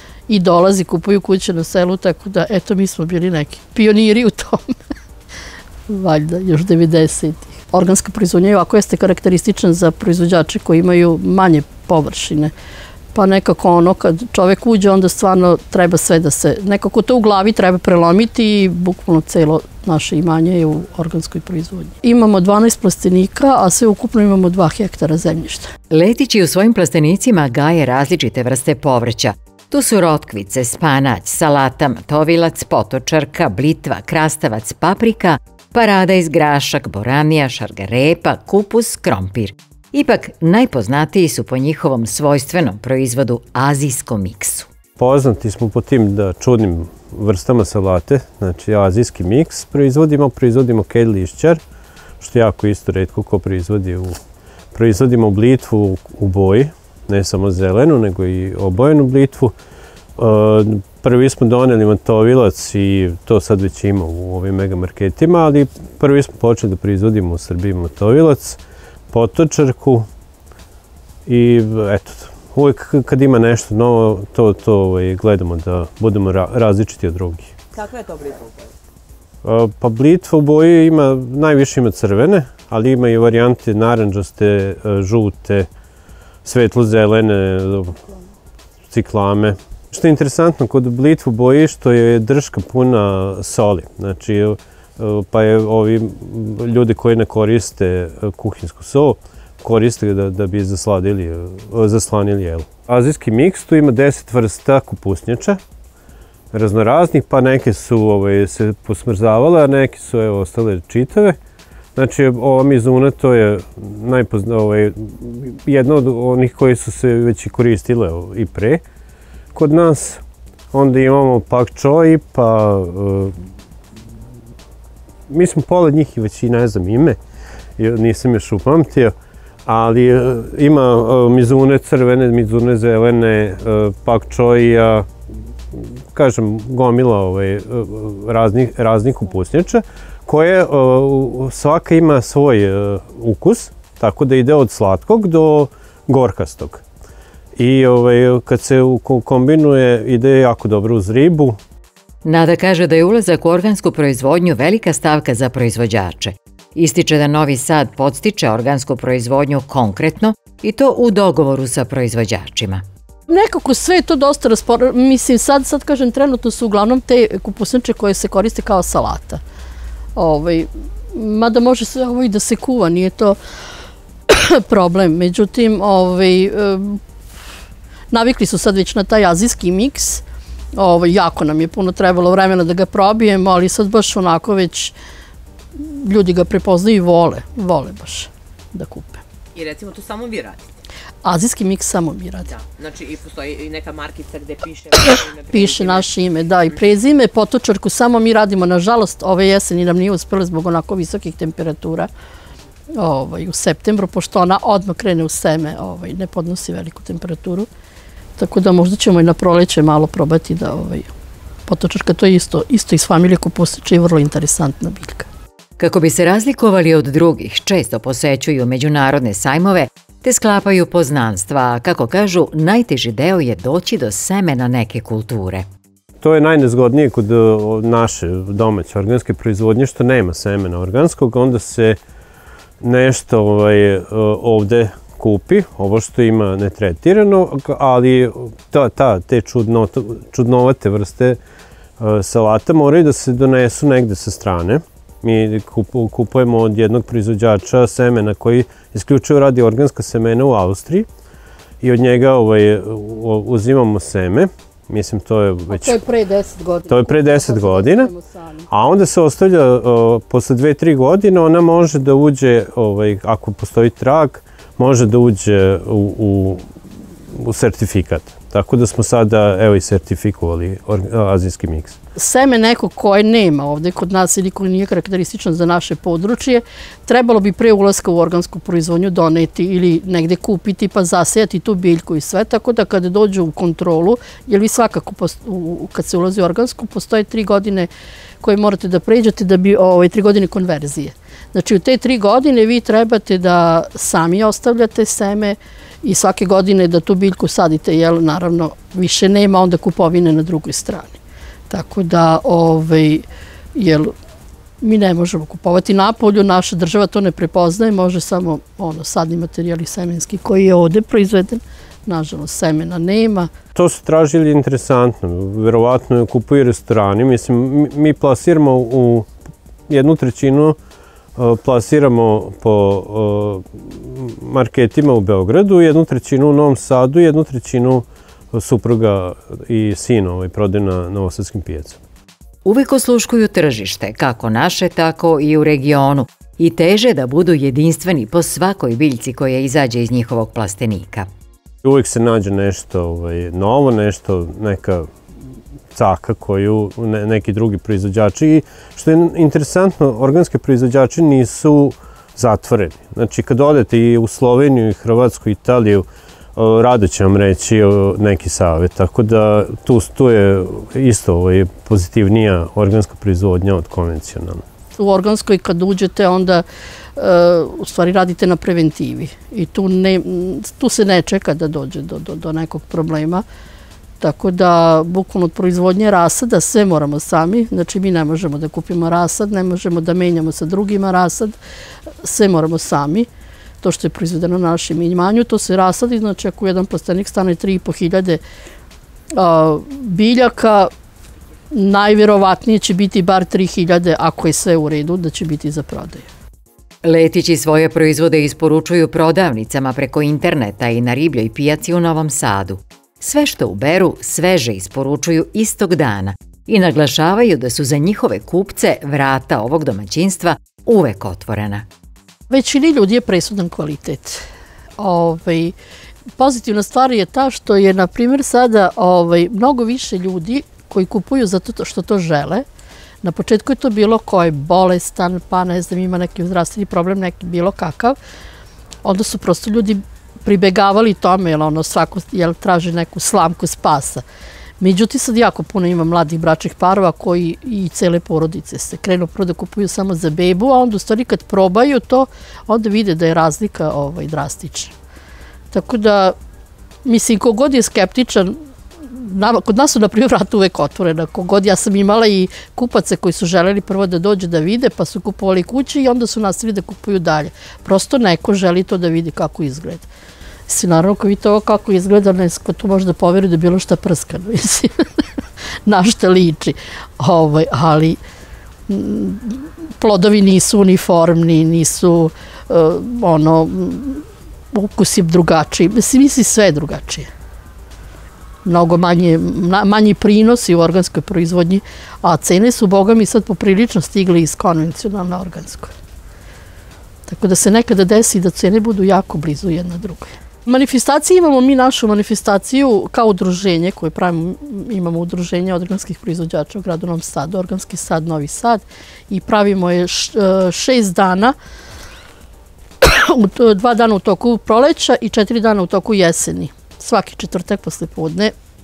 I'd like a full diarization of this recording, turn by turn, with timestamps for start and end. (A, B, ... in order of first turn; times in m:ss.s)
0:00.3-0:04.7 A
0:05.9-0:12.5 A
0:13.1-0:25.7 A
0:25.9-0:44.7 B
0:45.0-0:51.6 C
0:52.2-0:54.2 C
0:54.7-0:59.5 C
1:00.2-1:08.6 C
1:09.1-1:10.1 C
1:11.3-1:17.5 C
1:17.8-1:18.7 D
1:19.4-1:25.7 C
1:26.4-1:28.0 C
1:28.9-1:45.6 C
1:46.5-1:51.4 C
1:52.0-1:58.8 C
1:59.5-2:00.2 C
2:00.7-2:03.3 C
2:05.3-2:07.2 C
2:07.8-2:09.1 C
2:09.7-2:15.1 C
2:15.7-2:26.8 C
2:27.6-2:31.6 C
2:32.2-2:42.8 B
2:43.3-2:49.4 A
2:50.2-2:53.4 A
2:54.3-2:57.0 A
2:58.1-3:00.2 A
3:00.8-3:05.0 A
3:05.8-3:09.2 A
3:09.6-3:10.7 D
3:11.2-3:12.5 A
3:12.5-3:16.1 D
3:15.5-3:22.1 A
3:23.0-3:27.7 A
3:28.4-3:31.1 A
3:31.7-3:35.3 A
3:35.8-3:45.6 B
3:46.2-3:52.0 C
3:52.8-4:01.4 C
4:02.0-4:11.1 C
4:11.8-4:16.0 C
4:15.7-4:18.7 A
4:16.9-4:18.1 C
4:18.7-4:26.6 C
4:27.4-4:32.0 C
4:32.2-4:47.9 A
4:48.4-5:04.1 A
5:04.8-5:13.5 A
5:13.8-5:19.3 C
5:19.9-5:20.8 C
5:21.4-5:32.0 C
5:32.6-5:41.3 B
5:41.8-5:45.1 C
5:45.9-6:04.6 C
6:05.0-6:06.6 A
6:07.2-6:13.4 A
6:14.2-6:21.6 A
6:22.2-6:23.3 A
6:23.8-6:28.4 A
6:29.3-6:30.9 A
6:31.7-6:36.3 A
6:37.0-6:51.8 B
6:52.5-6:54.4 A
6:55.0-6:55.8 A
6:56.4-7:02.6 A
7:03.2-7:08.2 A
7:09.0-7:14.2 A
7:14.8-7:24.9 A
7:25.7-7:26.4 A
7:27.1-7:28.6 A
7:29.1-7:40.1 A
7:40.7-7:45.0 A
7:45.9-7:48.2 A
7:48.9-7:57.3 A
7:58.6-8:05.9 A
8:07.3-8:21.6 A
8:23.0-8:28.5 A